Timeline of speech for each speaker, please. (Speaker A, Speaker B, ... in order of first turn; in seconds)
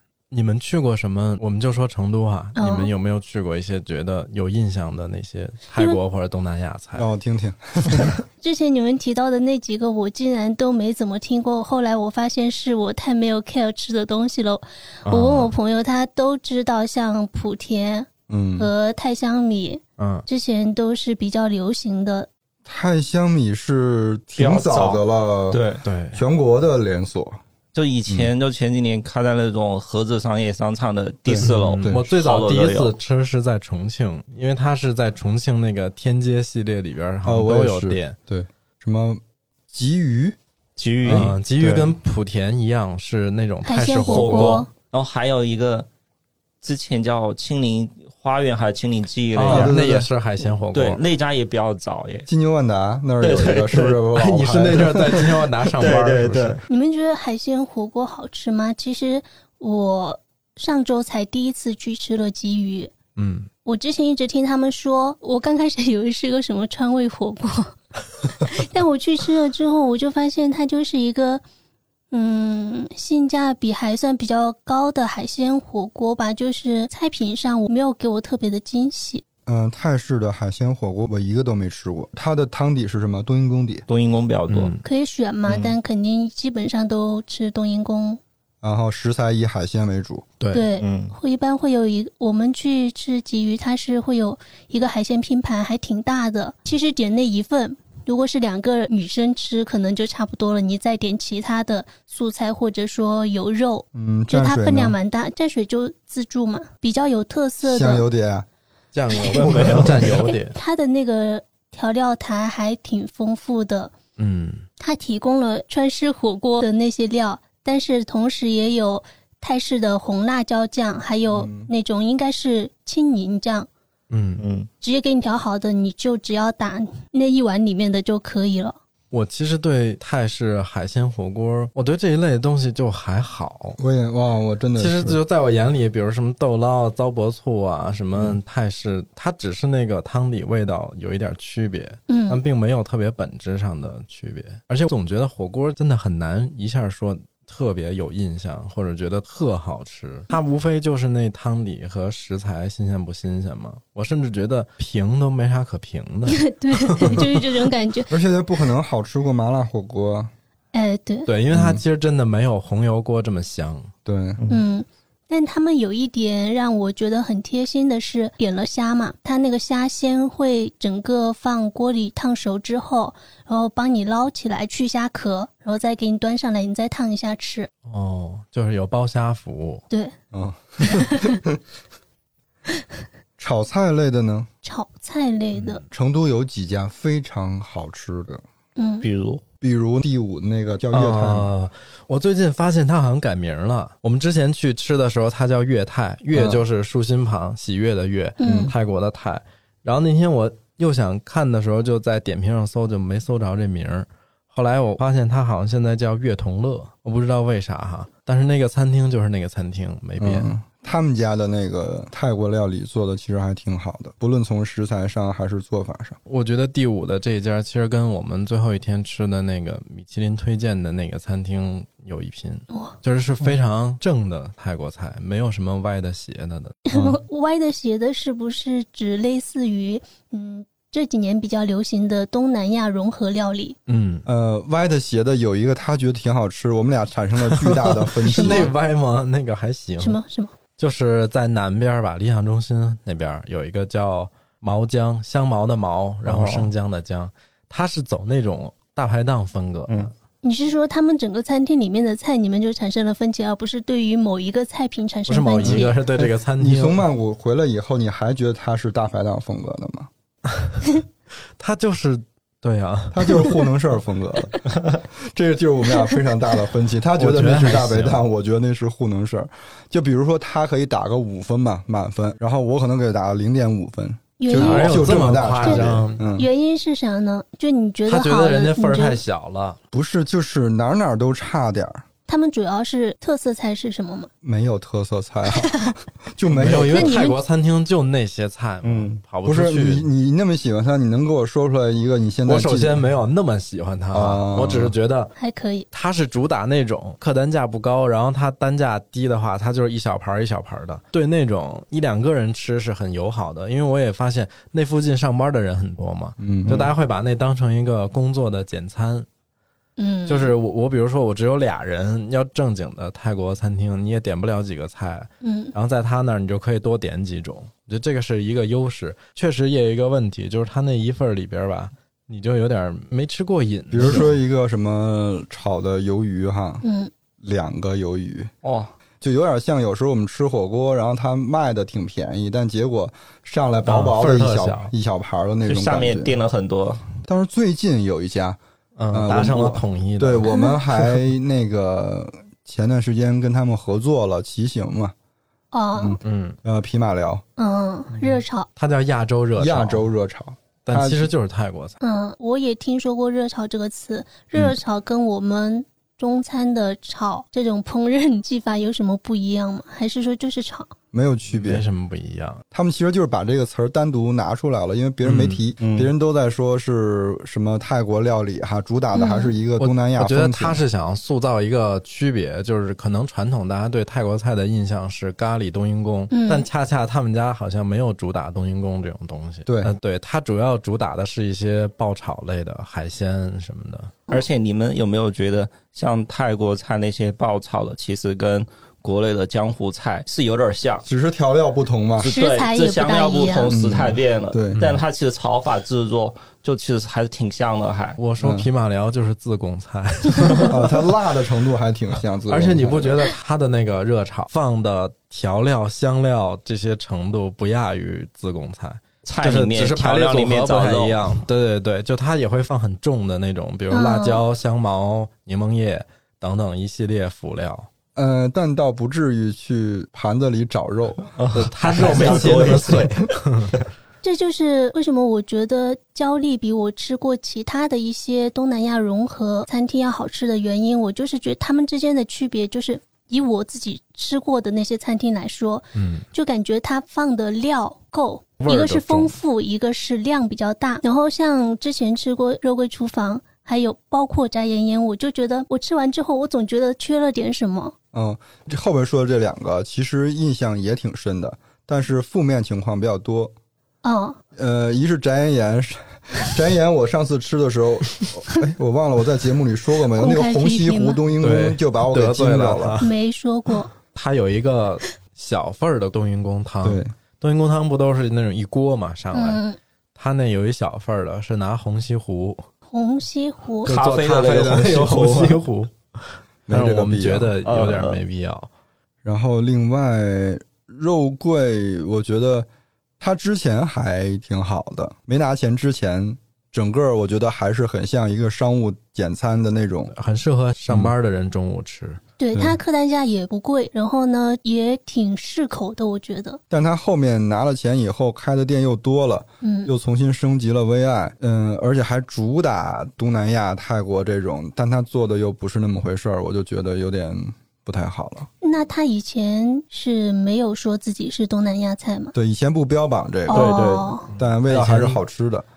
Speaker A: 0.3-7.1, 15.1-15.5, 20.0-20.2, 25.8-26.2, 31.4-38.2, 41.1-44.6, 49.3-51.0, 54.1-56.6, 63.2-63.5, 84.5-84.8, 90.4-90.7, 108.9-110.6, 114.2-114.6, 124.1-124.4, 129.1-133.8, 134.8-157.3, 161.3-163.9, 177.9-179.9, 190.9-210.5, 216.3-226.8, 233.9-234.3, 237.4-240.2, 240.8-250.1, 255.3-257.0, 260.5-260.9, 261.6-263.6, 267.1-268.2, 274.5-276.2, 278.1-279.8, 286.5-290.1, 292.5-295.3, 295.9-309.3, 310.3-324.3, 333.9-334.9, 338.9-340.5, 346.2-346.6, 348.2-350.1, 350.8-352.0, 361.5-362.6, 365.2-365.6, 369.8-384.2, 394.7-395.0, 398.2-401.1, 402.5-417.9, 421.5-423.7, 435.9-436.3, 438.6-439.3, 461.4-463.1, 464.1-469.6, 470.1-472.6, 473.8-478.7, 490.1-492.2, 514.3-515.2
Speaker B: 2.6-2.9, 8.4-22.3, 43.6-44.7, 56.7-62.9, 63.6-71.4, 72.1-79.2, 84.8-88.2, 90.5-108.1, 109.1-109.6, 110.2-113.9, 114.8-123.7, 124.8-128.8, 142.1-142.4, 156.3-158.1, 160.7-161.3, 164.5-177.7, 179.9-180.1, 180.8-181.3, 184.6-185.8, 188.8-189.1, 198.4-198.7, 226.9-233.8, 238.3-238.7, 240.0-240.6, 250.4-256.0, 274.4-279.2, 282.3-284.3, 285.5-285.9, 286.8-287.4, 295.4-295.9, 310.0-310.5, 315.4-315.7, 326.8-327.1, 340.4-340.8, 345.7-346.2, 347.6-348.7, 352.0-360.9, 369.1-369.5, 376.3-376.7, 392.2-393.8, 413.9-414.4, 424.2-447.9, 454.0-454.4, 460.1-461.2, 463.0-463.9, 469.3-469.8, 472.9-473.9, 492.4-496.6, 499.6-499.9, 508.6-512.3, 513.5-514.3
Speaker C: 7.0-8.2, 18.3-18.7, 22.7-25.6, 26.1-27.4, 31.3-32.0, 37.2-40.4, 41.0-41.8, 49.5-50.1, 52.3-55.7, 79.5-83.9, 88.6-90.2, 103.9-105.0, 107.6-108.5, 109.3-110.2, 121.3-121.7, 133.8-135.2, 158.1-160.3, 161.5-161.8, 164.1-164.4, 180.3-181.6, 183.4-184.5, 185.9-188.4, 189.6-191.5, 196.3-196.7, 198.4-198.7, 210.2-216.2, 226.9-227.2, 234.3-238.7, 255.6-260.1, 263.1-276.5, 279.9-282.0, 284.4-287.2, 289.4-293.0, 294.1-294.9, 306.4-306.9, 323.9-326.8, 327.4-328.5, 329.2-336.4, 337.2-338.6, 339.1-345.1, 345.9-347.4, 349.6-351.3, 361.1-361.8, 362.7-370.8, 379.7-379.9, 391.1-392.3, 393.7-394.8, 398.4-398.7, 400.7-403.3, 418.2-423.1, 448.1-453.5, 454.6-463.0, 466.8-467.1, 476.7-477.6, 479.2-482.7, 483.2-490.1, 496.7-508.5, 512.3-515.6
Speaker D: 24.4-25.8, 27.7-32.9, 40.8-41.9, 44.0-45.9, 46.6-49.8, 50.7-52.3, 53.2-54.0, 55.8-56.6, 83.9-84.7, 85.5-85.7, 90.8-91.1, 109.4-109.9, 124.4-124.7, 189.0-189.4, 246.3-246.7, 288.8-289.2, 328.6-328.9, 335.6-337.1, 365.8-366.1, 384.3-391.1, 392.2-398.2, 409.2-411.2, 421.4-423.3, 473.9-475.6, 477.6-478.2, 513.5-514.0